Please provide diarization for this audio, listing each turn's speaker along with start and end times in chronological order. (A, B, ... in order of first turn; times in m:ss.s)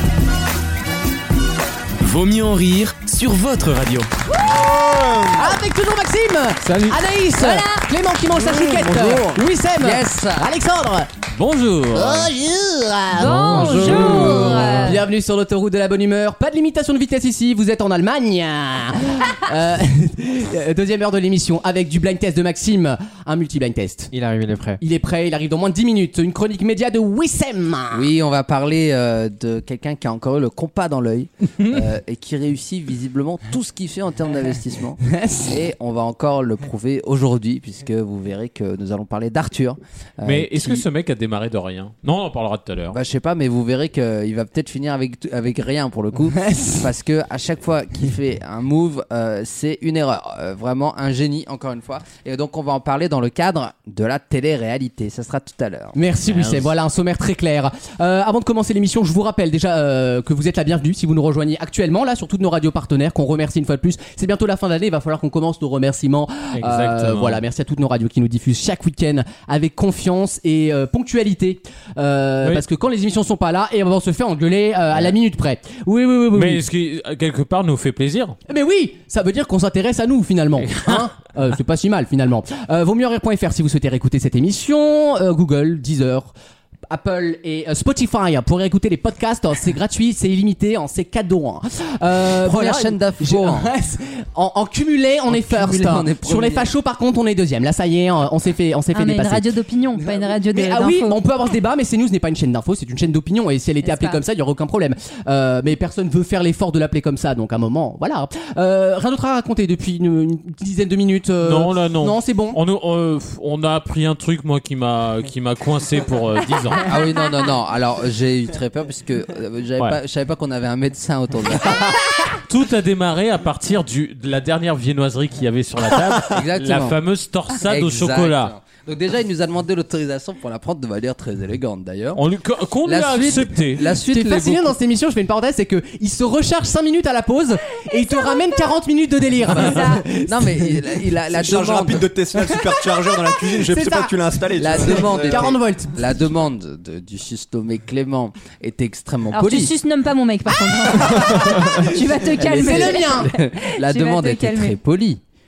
0:02.0-0:04.1 A
0:04.5-0:05.6 B
0:04.5-0:05.3 C
0:05.4-0:11.1 D
0:07.4-0:07.9 E
0:08.3-0:10.5 B
0:11.3-0:12.3 F
0:12.0-0:24.1 D
0:13.1-0:15.0 E
0:13.2-0:14.8 G
0:13.5-0:14.7 F
0:24.1-0:24.8 G
0:24.8-0:28.1 D
0:27.9-0:40.8 B
0:35.1-0:35.5 D
0:40.2-0:43.0 F
0:42.9-0:56.0 B
0:46.3-0:46.8 D
0:56.0-1:16.6 D
0:56.3-0:56.7 F
1:06.6-1:07.4 F
1:16.4-1:18.4 F
1:18.5-1:26.3 D
1:20.6-1:21.0 F
1:26.9-1:52.6 D
1:32.4-1:33.7 B
1:35.3-1:36.7 B
1:38.9-1:41.2 E
1:43.8-1:44.2 E
1:51.4-1:56.9 F
1:56.8-2:02.0 B
2:02.5-2:08.5 F
2:06.2-2:07.0 B
2:07.6-2:12.2 B
2:12.2-2:13.9 F
2:12.8-2:14.7 B
2:14.0-2:20.8 D
2:17.9-2:18.8 E
2:19.5-2:20.1 E
2:20.1-2:22.1 B
2:21.3-2:25.6 C
2:23.4-2:26.0 D
2:24.6-2:29.8 B
2:29.3-2:34.8 E
2:31.0-2:31.2 D
2:31.0-2:35.2 B
2:32.4-2:33.3 D